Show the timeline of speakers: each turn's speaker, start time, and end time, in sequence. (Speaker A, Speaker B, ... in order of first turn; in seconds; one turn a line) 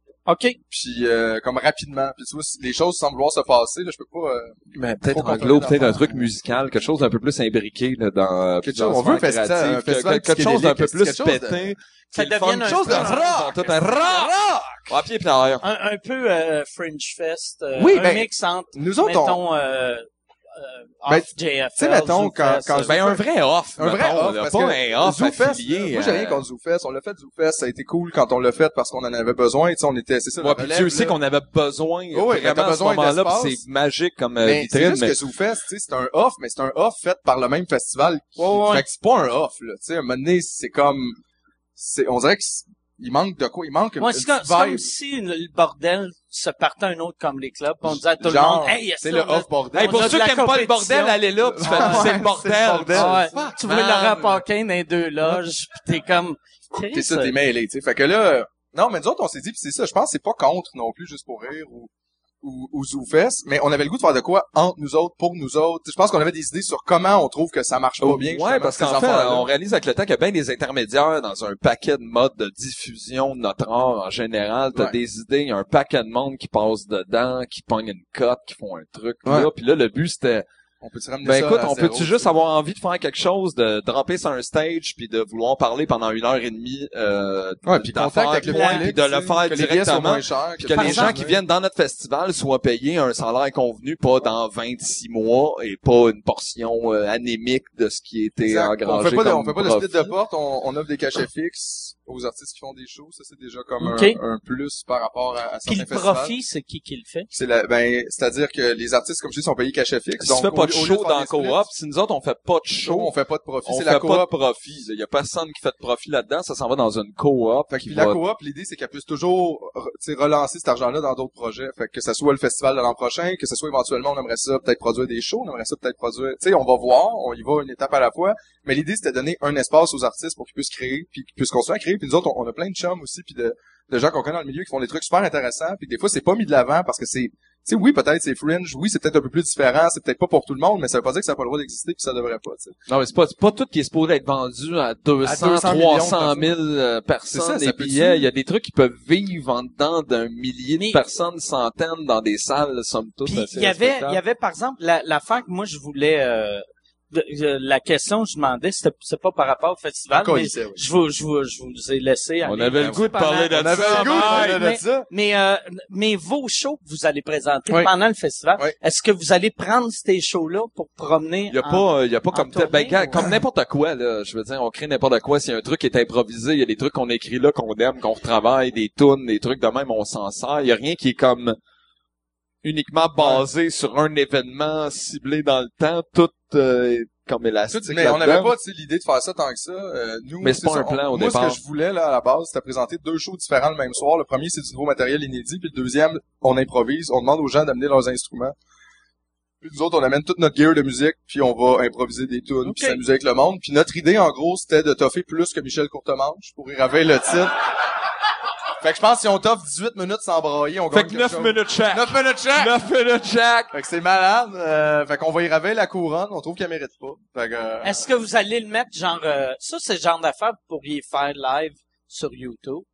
Speaker A: 0.2-0.6
Speaker B: 0.7-6.3
Speaker C: 4.7-15.6
Speaker B: 8.6-11.6
Speaker A: 12.1-14.8
Speaker B: 12.7-13.5
Speaker A: 15.6-22.9
Speaker B: 17.8-19.4
Speaker B: 21.1-23.2
Speaker C: 22.8-26.4
Speaker B: 23.8-31.2
Speaker C: 30.4-35.1
Speaker B: 32.1-33.6
Speaker B: 34.4-41.2
Speaker A: 38.4-38.8
Speaker B: 41.8-44.9
Speaker A: 44.0-52.2
Speaker B: 48.2-50.1
Speaker C: 49.7-54.4
Speaker B: 51.4-53.5
Speaker A: 52.9-57.3
Speaker B: 56.9-61.9
Speaker B: 62.4-69.5
Speaker C: 68.0-80.5
Speaker B: 80.8-82.3
Speaker C: 81.2-100.1
Speaker B: 87.6-91.4
Speaker A: 88.4-88.9
Speaker A: 90.7-91.2
Speaker B: 98.4-106.3
Speaker A: 103.8-104.2
Speaker A: 105.7-107.3
Speaker B: 107.3-111.6
Speaker C: 110.2-113.1
Speaker B: 112.8-114.3
Speaker C: 113.6-118.2
Speaker B: 117.7-142.8
Speaker C: 142.9-154.2
Speaker B: 145.2-146.5
Speaker B: 147.3-148.3
Speaker A: 153.2-173.3
Speaker B: 160.1-160.8
Speaker C: 162.4-164.6
Speaker B: 163.5-165.1
Speaker C: 171.5-181.6
Speaker C: 182.6-188.5
Speaker B: 183.2-183.4
Speaker B: 187.7-198.5
Speaker C: 190.4-191.6
Speaker B: 199.6-207.5
Speaker A: 202.6-203.0
Speaker B: 208.8-212.7
Speaker C: 210.9-213.7
Speaker B: 213.7-218.0
Speaker A: 217.8-222.8